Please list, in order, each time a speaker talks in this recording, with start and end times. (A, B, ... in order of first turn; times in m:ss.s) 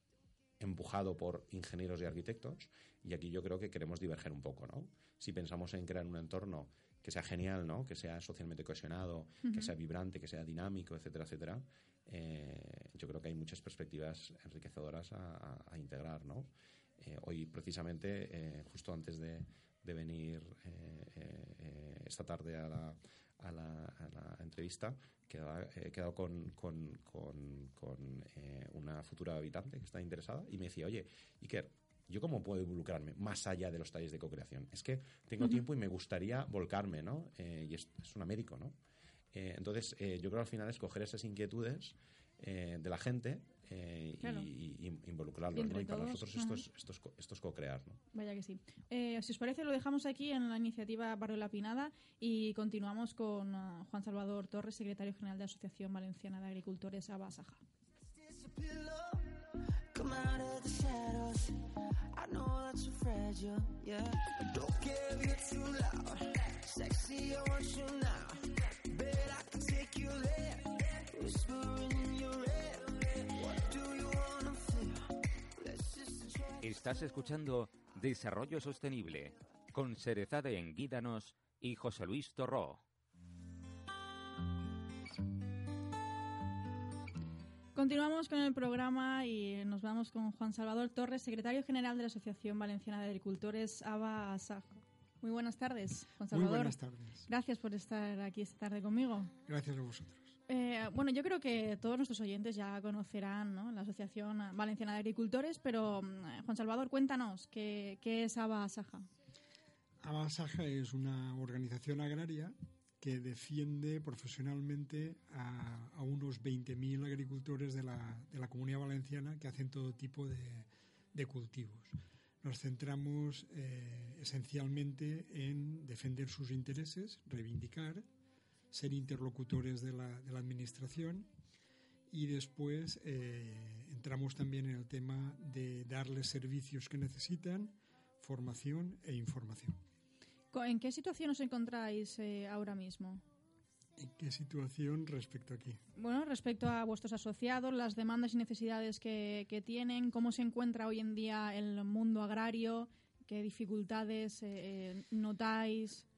0:00.6-0:38.8 A
0:09.4-0:09.7 B
0:39.3-0:48.0 A
0:44.2-0:44.5 B
0:45.5-0:46.6 B
0:48.1-0:57.6 B
0:58.2-0:59.3 C
0:59.9-1:01.6 C
1:02.1-1:15.0 C
1:15.6-1:16.6 C
1:16.6-1:22.8 D
1:27.8-1:39.3 B
1:36.3-1:37.3 E
1:39.5-1:40.3 E
1:40.5-1:49.1 B
1:50.0-2:08.1 E
2:08.7-2:11.3 E
2:12.1-2:19.8 E
2:20.5-2:23.2 B
2:24.0-2:25.8 E
2:26.0-2:36.1 B